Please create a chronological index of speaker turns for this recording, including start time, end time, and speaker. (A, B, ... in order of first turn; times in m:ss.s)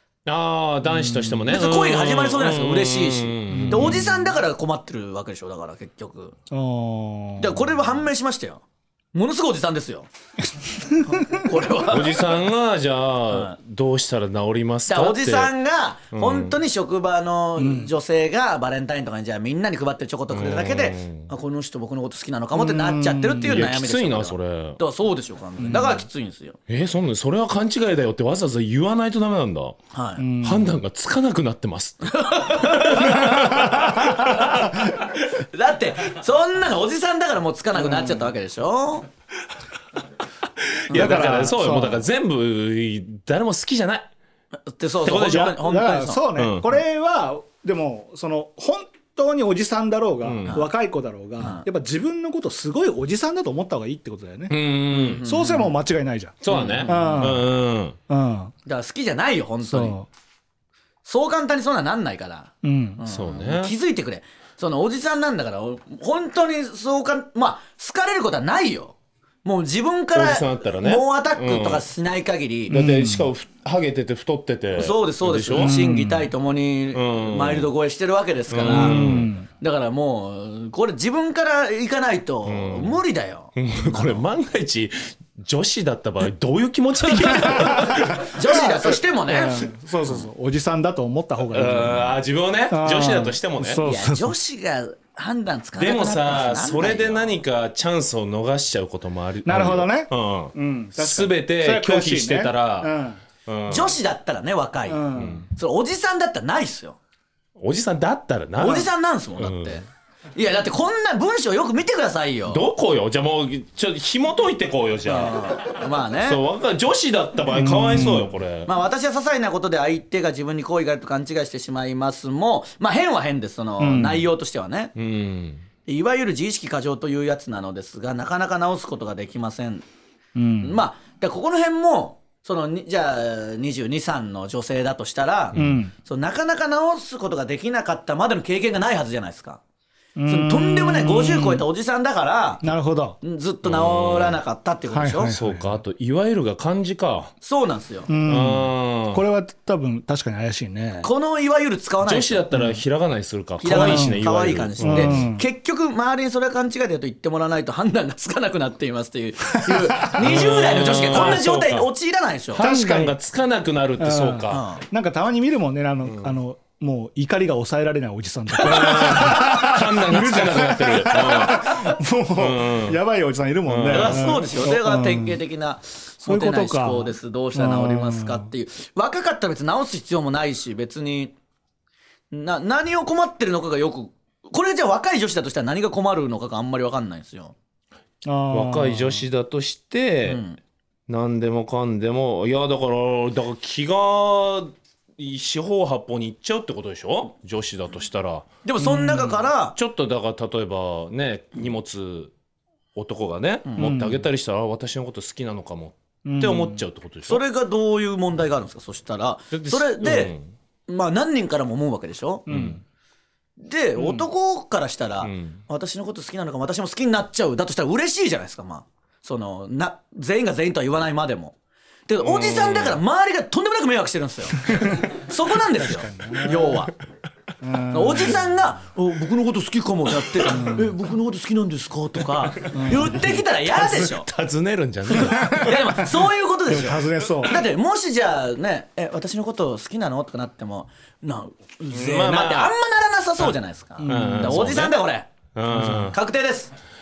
0:00.2-0:04.2 A
0:00.8-0:01.4 B
0:01.5-0:06.3 C
0:03.5-0:04.2 B
0:06.5-0:07.7 B
0:07.4-0:08.6 C
0:09.1-0:10.1 C
0:10.9-0:11.2 B
0:11.1-0:12.2 C
0:11.8-0:15.5 A
0:13.3-0:13.5 C
0:14.9-0:26.6 C
0:16.1-0:16.6 A
0:17.6-0:17.9 B
0:20.3-0:21.3 A
0:22.5-0:23.6 B
0:23.4-0:24.8 A
0:25.6-0:26.0 B
0:26.7-0:29.8 A
0:29.9-0:30.2 C
0:30.2-0:30.8 B
0:30.4-0:34.6 A
0:32.0-0:39.1 C
0:33.0-0:34.9 B
0:37.8-0:38.2 B
0:40.6-0:44.1 A
0:40.9-0:42.1 B
0:40.9-0:41.2 C
0:44.7-0:46.2 C
0:45.0-0:45.6 A
0:45.3-0:54.5 B
0:46.4-0:46.7 A
0:50.2-0:50.6 A
0:54.5-0:55.2 A
0:54.9-0:55.7 C
0:55.2-0:57.5 B
0:56.4-0:58.0 A
0:56.5-0:57.3 C
0:58.1-0:58.5 B
0:58.6-1:00.0 C
0:59.6-1:00.1 B
1:01.0-1:12.8 C
1:02.6-1:03.0 B
1:03.0-1:03.7 A
1:10.1-1:11.8 A
1:12.7-1:13.3 B
1:12.7-1:15.7 A
1:14.8-1:23.5 C
1:15.5-1:16.3 B
1:16.9-1:17.7 A
1:18.5-1:19.3 A
1:18.6-1:19.5 B
1:22.4-1:23.0 A
1:23.5-1:28.3 A
1:27.4-1:32.2 B
1:28.0-1:30.2 C
1:31.5-1:33.8 A
1:32.7-1:34.3 B
1:33.8-1:37.4 C
1:35.8-1:42.9 A
1:39.4-1:43.2 B
1:43.4-1:44.0 A
1:43.7-1:47.0 C
1:44.9-1:45.4 B
1:45.2-1:45.5 A
1:47.6-1:49.8 A
1:48.6-1:49.8 C
1:50.3-1:52.6 C
1:52.5-1:55.4 A
1:55.0-1:56.4 C
1:56.2-1:58.7 A
1:57.5-1:58.3 B
1:58.6-2:04.9 C
2:03.8-2:04.3 B
2:05.0-2:05.6 A
2:05.8-2:09.8 C
2:10.4-2:10.8 B
2:10.6-2:19.6 C
2:15.5-2:15.9 B
2:20.2-2:21.6 B
2:20.3-2:22.6 C
2:22.6-2:23.2 B
2:23.2-2:25.3 C
2:23.6-2:24.4 A
2:24.9-2:25.8 B
2:25.3-2:27.3 A
2:27.4-2:28.1 C
2:28.1-2:31.1 B
2:28.2-2:29.2 A
2:31.0-2:32.4 C
2:32.0-2:35.3 A
2:32.5-2:32.8 B
2:33.6-2:42.6 C
2:33.7-2:34.2 B
2:34.8-2:35.4 B
2:39.6-2:40.4 B
2:40.1-2:41.9 A
2:42.5-2:44.6 A
2:42.6-2:43.2 B
2:44.0-2:55.4 B
2:44.5-2:44.8 C
2:46.0-2:46.3 A
2:48.6-2:49.4 C
2:48.6-2:53.0 A
2:53.7-2:54.2 A
2:53.9-3:01.3 C
2:56.2-2:58.5 B
3:02.3-3:07.5 C
3:08.2-3:09.2 B
3:08.5-3:10.4 A
3:10.2-3:10.6 C
3:11.1-3:18.5 A
3:18.6-3:19.8 C
3:18.8-3:19.4 B
3:19.7-3:22.3 A
3:22.9-3:27.4 A
3:23.8-3:24.2 B
3:26.2-3:26.8 B
3:27.3-3:30.3 C
3:29.5-3:30.5 A
3:30.9-3:32.5 C
3:32.5-3:32.8 B
3:32.5-3:32.8 A
3:33.6-3:41.5 C
3:35.2-3:35.6 A
3:42.1-3:46.9 C
3:42.2-3:43.0 A
3:44.7-3:45.1 B
3:45.7-3:46.9 B
3:47.6-3:48.4 B
3:47.9-3:54.3 C
3:50.4-3:50.9 B
3:52.7-3:53.4 B
3:53.7-3:55.8 A
3:55.1-4:05.3 C
3:55.4-3:56.0 B
3:56.7-3:57.6 B
4:01.9-4:02.7 A
4:04.0-4:04.7 B
4:04.0-4:05.0 A
4:05.5-4:06.2 A
4:05.7-4:06.1 B
4:05.8-4:06.7 C